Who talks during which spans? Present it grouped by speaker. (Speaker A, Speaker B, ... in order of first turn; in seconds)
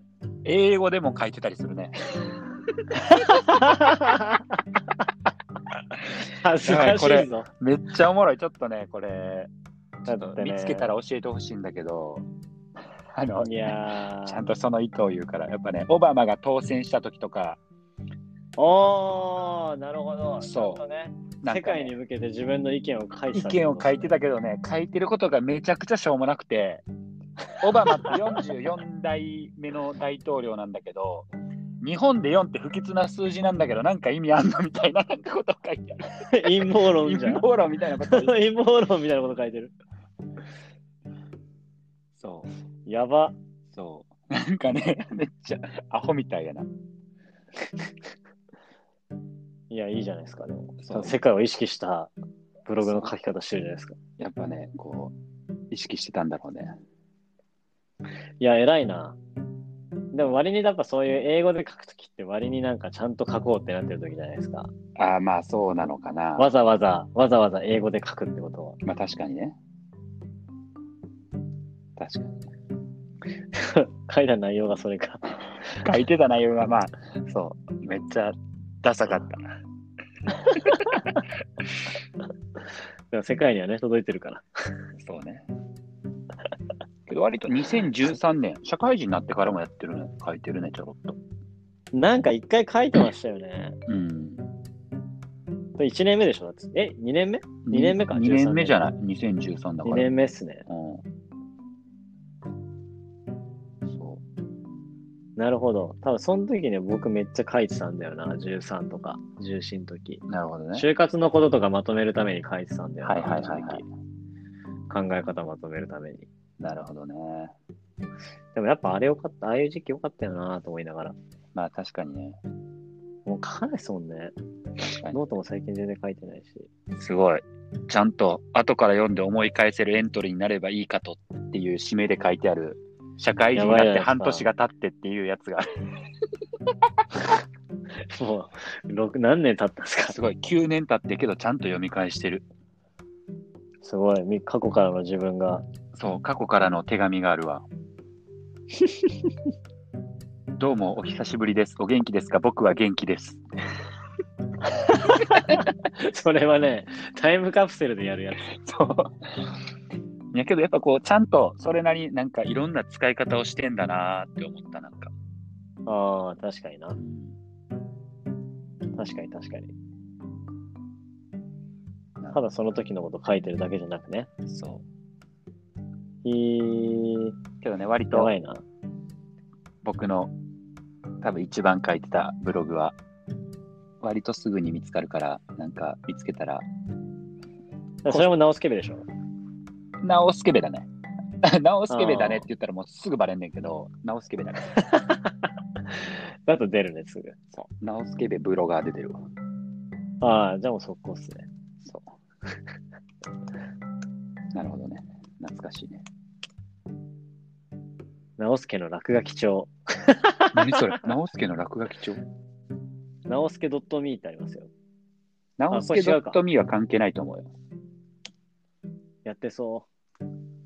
Speaker A: 0.4-2.4, 6.6-9.5, 10.0-12.3, 13.1-17.6, 20.4-20.8, 21.4-21.9, 23.3-26.8, 27.6-31.3, 31.8-38.4, 42.2-42.5, 43.7-46.7, 50.8-51.1, 52.8-53.1, 54.2-55.1, 55.7-56.8, 65.0-66.5, 68.8-69.5, 72.0-72.4, 75.7-79.6, 80.4-81.2, 85.0-85.5, 87.1-91.2, 93.9-94.4, 97.7-100.1, 100.7-101.0, 103.8-104.2, 110.3-110.8, 113.0-113.8, 116.6-117.5, 121.5-122.4, 124.8-125.2, 127.0-135.9, 140.1-142.5, 145.9-147.6, 150.6-153.4, 158.4-159.5, 160.3-165.1, 167.0-167.3, 174.5-174.8, 177.6-178.3, 179.8-180.3, 181.2-183.0, 184.0-186.6, 190.0-190.9, 191.4-194.8, 197.5-199.2, 201.8-202.1, 204.5-206.0, 210.5-212.2, 215.6-217.5
Speaker B: 3.0-4.6, 6.0-7.5, 10.1-10.9, 13.4-14.4, 18.6-24.1, 27.8-28.3, 36.1-37.5, 38.0-39.7, 42.9-43.4, 49.7-52.1, 52.6-54.0, 58.4-59.2, 60.1-64.7, 66.4-68.8, 73.5-75.8, 83.1-84.4, 91.9-93.8, 95.8-98.8, 99.8-100.7, 105.4-113.8, 114.9-116.3, 118.5-121.2, 123.2-124.3, 125.0-126.7, 133.5-134.4, 138.1-140.2, 143.8-145.6, 148.8-149.1, 154.6-158.5, 165.8-167.0, 168.9-169.7, 172.3-174.3, 176.2-177.3, 178.1-178.6, 188.0-189.1, 191.9-192.4, 194.7-197.3, 200.2-201.4, 208.4-211.1, 213.3-214.7, 215.7-216.4, 219.2-219.9